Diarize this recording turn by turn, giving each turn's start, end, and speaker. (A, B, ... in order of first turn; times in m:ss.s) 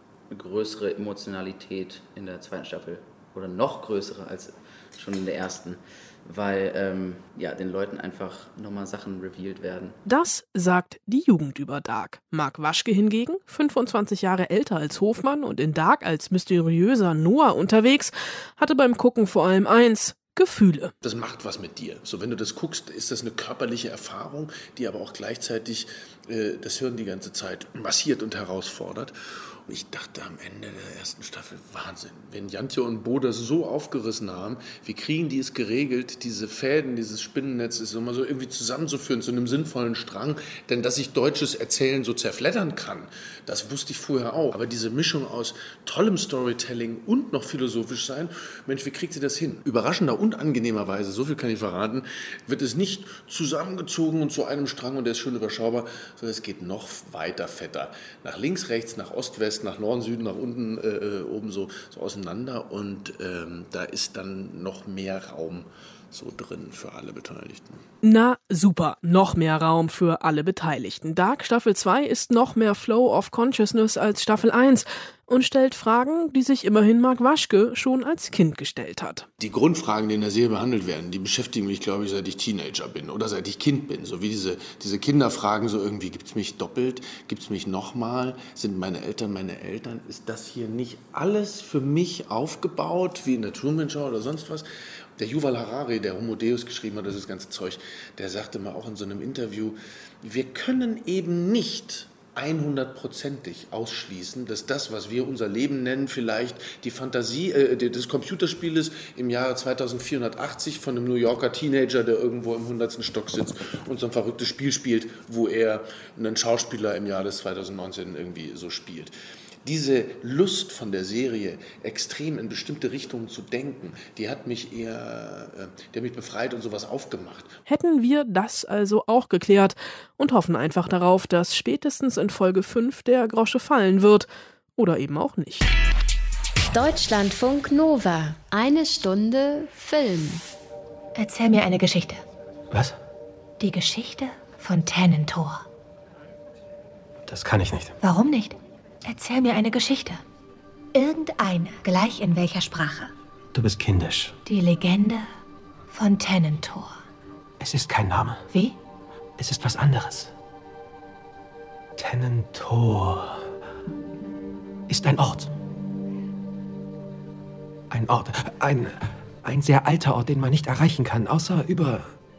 0:00.3-0:10.0 A
0:10.0-0:20.9 B
0:21.0-0:29.1 C
0:29.7-1:07.8 C
1:08.0-1:19.3 B
1:19.4-1:34.6 C
1:35.2-1:59.1 C
1:59.6-2:07.6 C
2:07.6-2:15.7 B
2:16.7-2:20.4 D
2:21.2-2:22.2 E
2:22.7-2:23.0 F
2:23.6-2:25.6 E
2:27.2-2:28.0 F
2:28.0-2:30.2 E
2:30.9-2:33.1 E
2:33.5-2:34.4 F
2:34.4-2:35.3 E
2:35.9-2:37.0 E
2:37.6-2:38.4 F
2:38.5-2:38.8 E
2:39.4-2:40.3 F
2:42.0-2:43.4 F
2:44.9-2:45.5 F
2:47.9-2:52.1 F